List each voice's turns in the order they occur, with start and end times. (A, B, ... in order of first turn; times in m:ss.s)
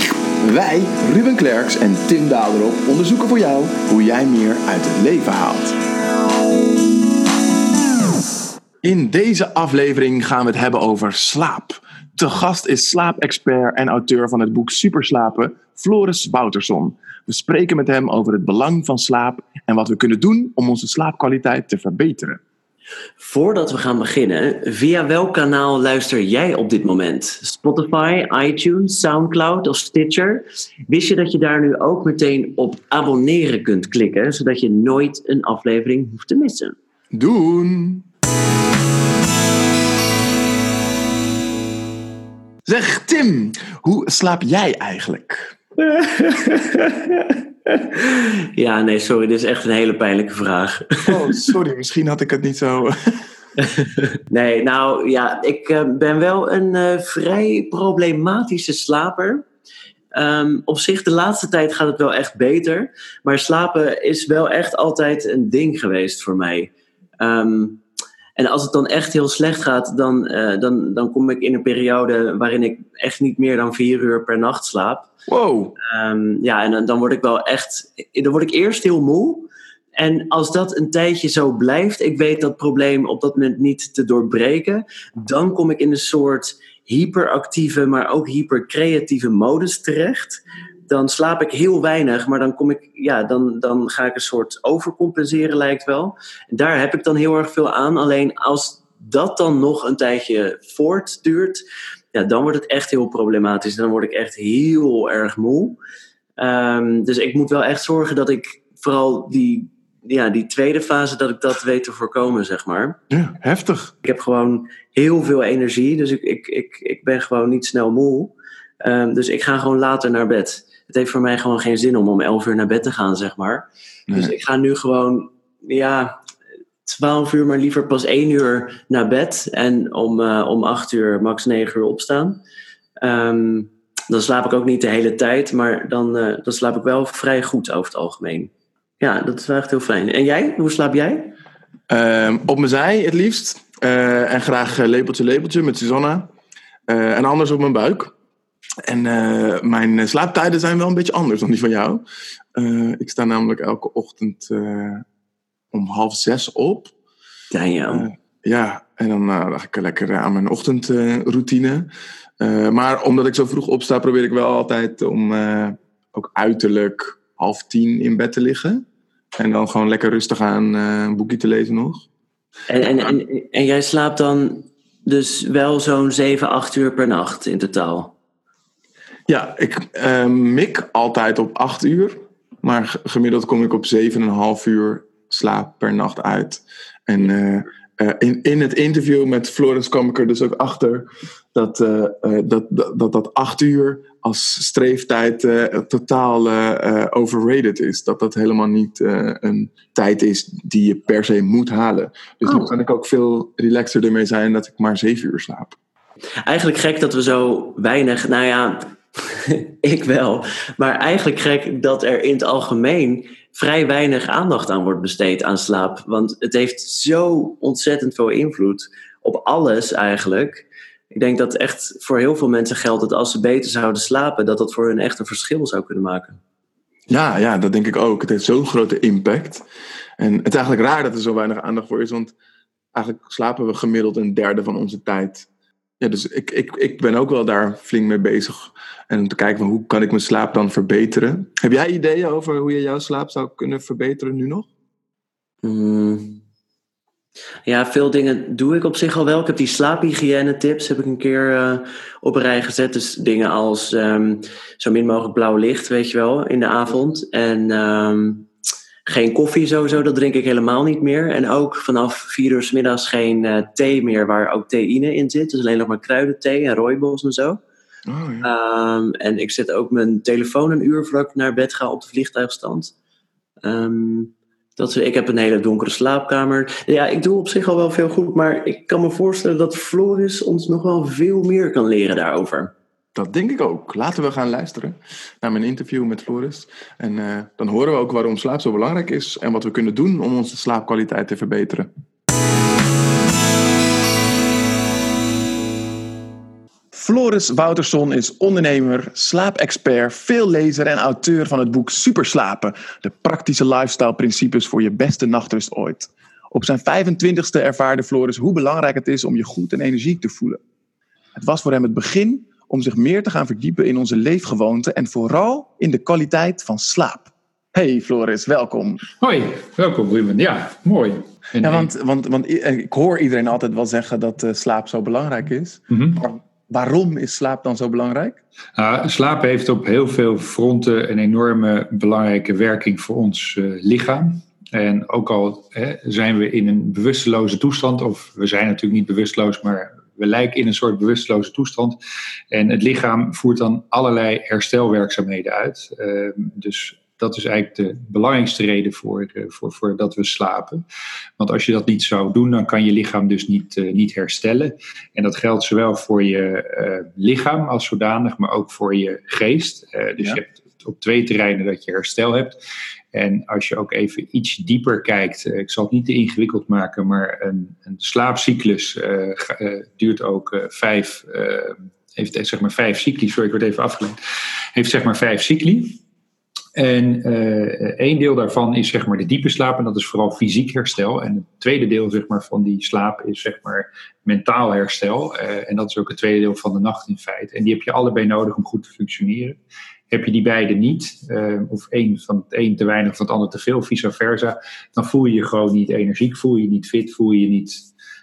0:00.4-0:05.8 A
0:08.8-0:22.4 A
0:23.2-0:36.7 B
0:37.1-0:38.0 A
0:42.6-0:45.5 A
0:45.8-0:51.5 B
0:51.1-0:53.2 A
0:53.7-0:59.4 B
1:00.1-1:07.8 B
1:08.4-1:15.1 B
1:15.3-1:15.8 A
1:15.8-1:41.6 B
1:42.1-1:45.8 B
1:46.4-1:53.0 B
1:53.1-1:53.9 A
1:54.0-1:58.3 B
1:58.8-2:06.2 B
2:04.1-2:04.3 A
2:06.8-2:12.4 B
2:13.0-2:21.4 B
2:21.9-2:26.3 A
2:26.9-2:28.1 A
2:28.8-2:35.0 A
2:35.7-2:36.9 A
2:37.5-2:38.1 B
2:37.9-2:41.9 A
2:42.4-2:48.8 A
2:49.4-2:52.0 A
2:52.7-2:58.1 B
2:59.3-3:25.8 A
3:22.4-3:22.7 B
3:26.4-3:46.4 B
3:47.1-3:49.6 A
3:50.2-3:52.3 A
3:52.9-3:55.5 A
3:56.0-4:04.7 A
4:05.6-4:06.4 B
4:07.6-4:18.5 B
4:19.1-4:27.6 B
4:28.1-4:28.5 A
4:28.4-4:32.9 B
4:33.6-4:42.7 B
4:43.1-4:51.9 A
4:56.9-5:10.6 A
5:11.4-5:19.0 A
5:19.2-5:21.9 C
5:21.6-5:28.4 A
5:25.9-5:26.2 C
5:28.8-5:42.0 C
5:42.5-5:50.8 C
5:51.4-6:02.6 C
6:03.1-6:14.2 C
6:14.8-6:16.0 C
6:16.8-6:29.6 C
6:30.1-6:37.8 C